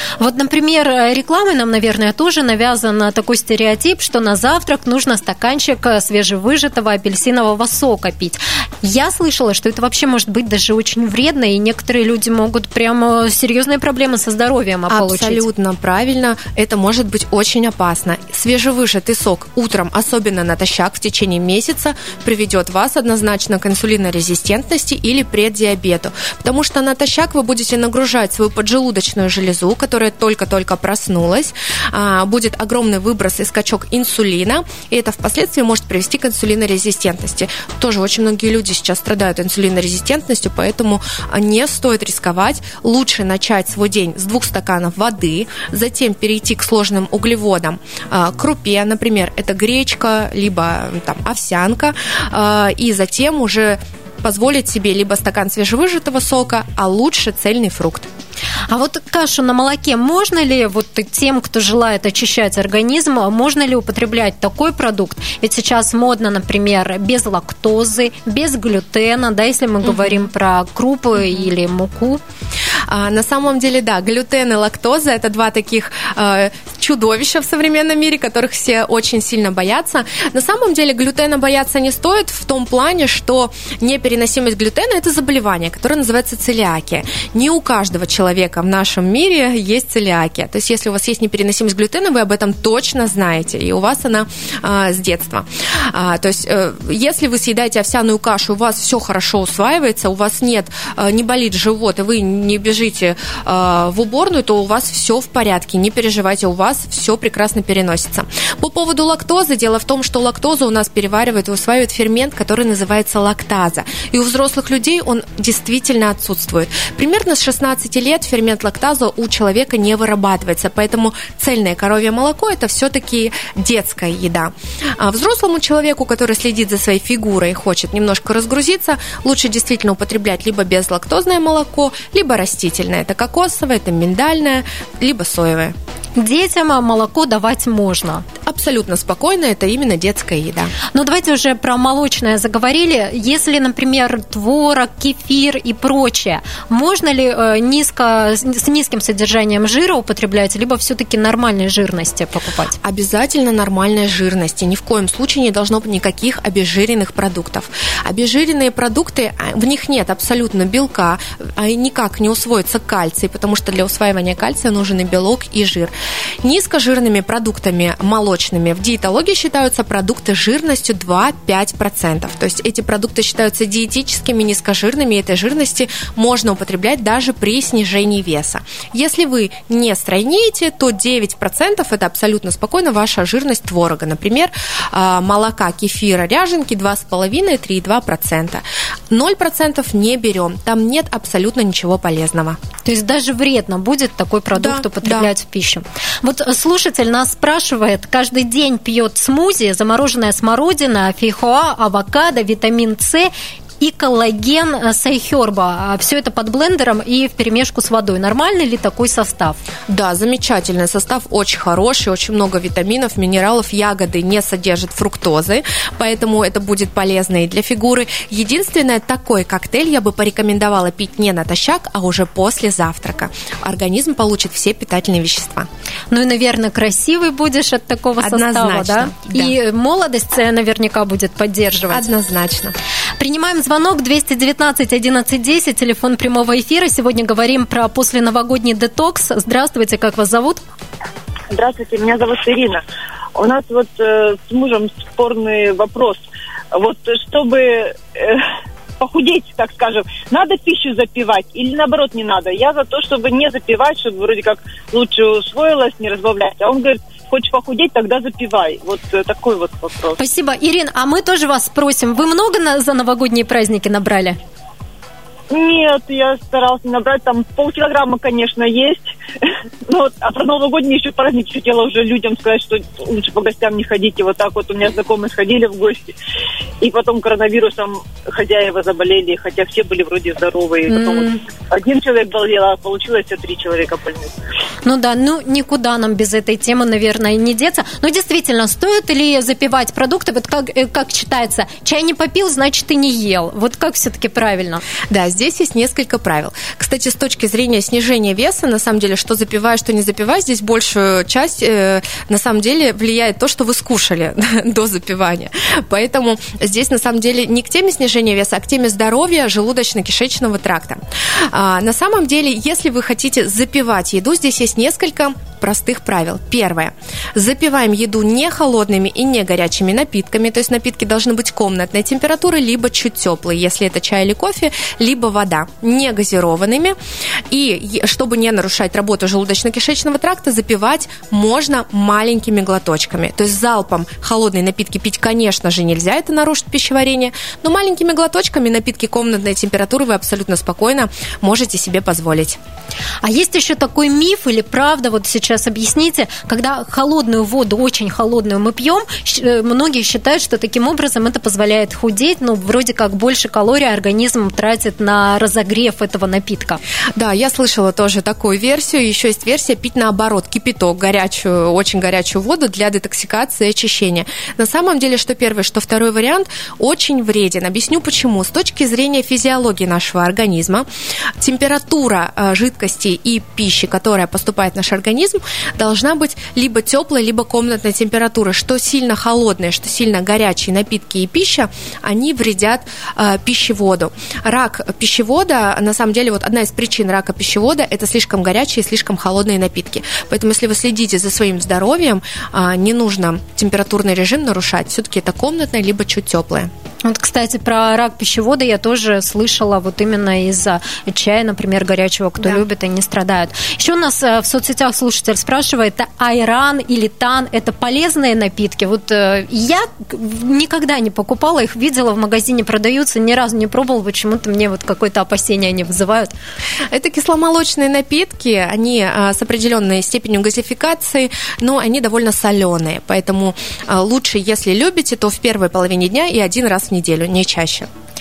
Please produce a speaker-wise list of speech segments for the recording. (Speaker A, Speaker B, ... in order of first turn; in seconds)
Speaker A: 0.2-15.5, 58.7-72.2, 136.2-138.2, 140.9-152.8, 192.8-209.6, 226.1-232.1, 233.2-240.6, 260.2-264.4, 280.9-281.4, 284.8-294.8, 343.2-356.8, 397.0-416.3
Speaker B: 14.9-58.1, 72.9-135.8, 138.4-140.7, 152.8-192.6, 194.6-195.3, 209.9-225.7, 228.2-229.6, 231.9-232.8, 295.1-327.0, 327.5-342.6, 357.1-370.9, 371.4-396.7, 416.9-427.9
Speaker C: 241.5-242.8, 243.4-246.2, 246.7-248.4, 249.0-260.2, 265.5-269.1, 269.9-276.1, 276.8-284.3